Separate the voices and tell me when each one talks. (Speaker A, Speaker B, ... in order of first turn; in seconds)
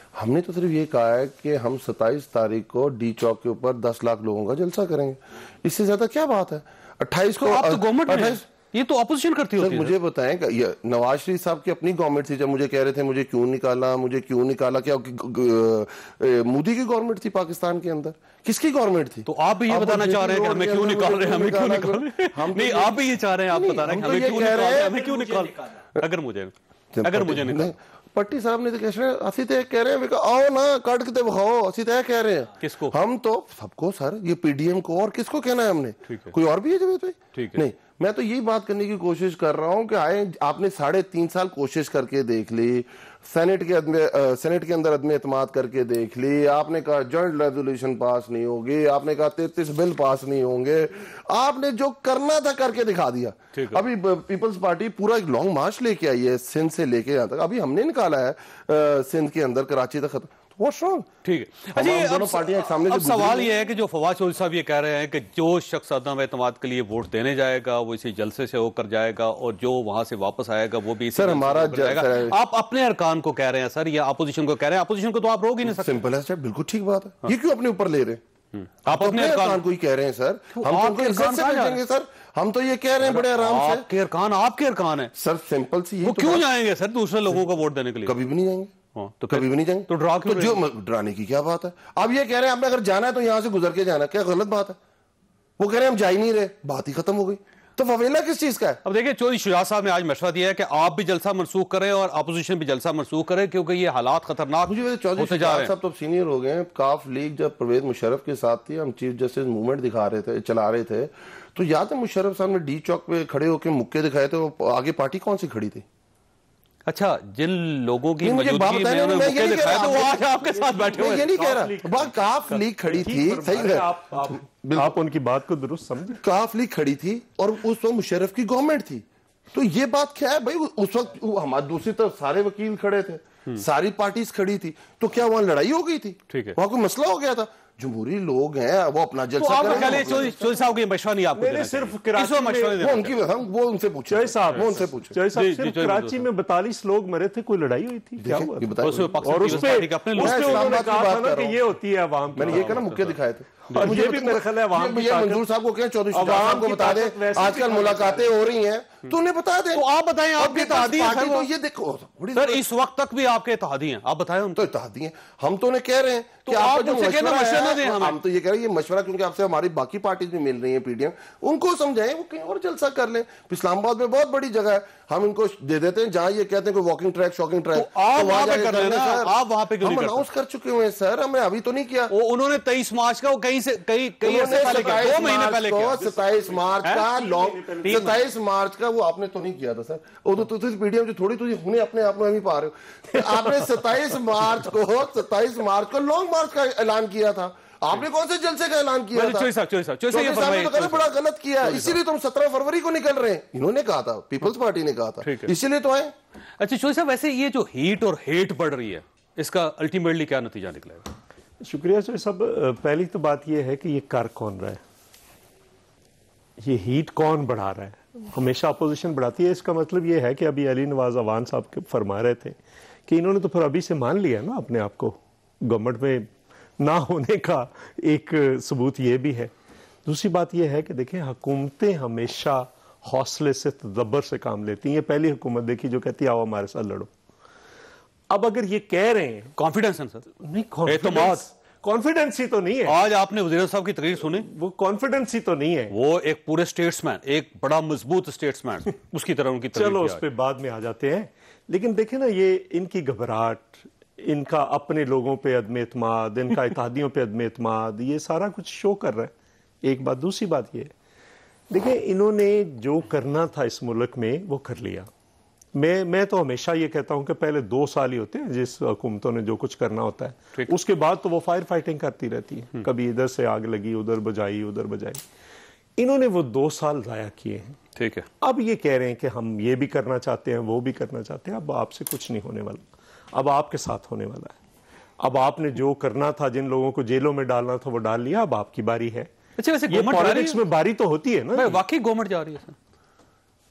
Speaker A: 0.2-8.4, 9.6-25.2, 27.0-61.1, 61.8-63.5, 71.2-72.3, 75.7-78.2, 78.9-83.8, 85.2-86.5, 88.0-88.7, 89.3-94.8, 95.6-98.8, 104.7-115.8, 118.2-120.2, 120.9-125.0, 126.2-140.4, 142.8-145.2, 148.2-151.6, 152.3-159.8, 160.4-162.6, 164.6-182.1, 184.2-199.5, 200.1-206.1
Speaker B: 7.4-9.9, 19.3-27.8, 32.6-33.0, 37.3-37.6, 53.5-53.8, 61.2-76.0, 78.5-79.6, 80.5-81.8, 83.0-85.1, 86.0-88.2, 89.0-90.6, 98.8-105.8, 116.9-121.3, 136.3-136.6, 139.4-143.2, 145.3-146.2, 148.8-150.8, 152.4-153.2, 159.7-161.5, 162.3-164.7, 166.5-168.2, 177.7-180.3, 182.1-186.2, 186.8-187.1, 187.8-188.2, 199.1-201.1, 201.6-202.0, 205.2-205.5, 206.6-211.1, 239.6-240.3, 240.9-241.5, 242.9-244.5, 245.9-250.2, 278.0-278.3, 289.6-290.6, 291.6-292.8
Speaker C: 120.5-126.2, 139.6-140.3, 141.3-142.8, 144.1-152.8, 153.8-155.4, 156.1-158.3, 184.6-185.1, 187.2-187.9, 211.6-214.8, 216.6-226.3, 226.8-229.5, 230.1-237.1, 238.3-239.5, 240.4-243.0, 244.2-245.9, 249.7-260.9, 261.7-265.1, 265.8-275.2, 276.0-277.8, 278.4-284.6, 285.2-289.3, 289.9-291.8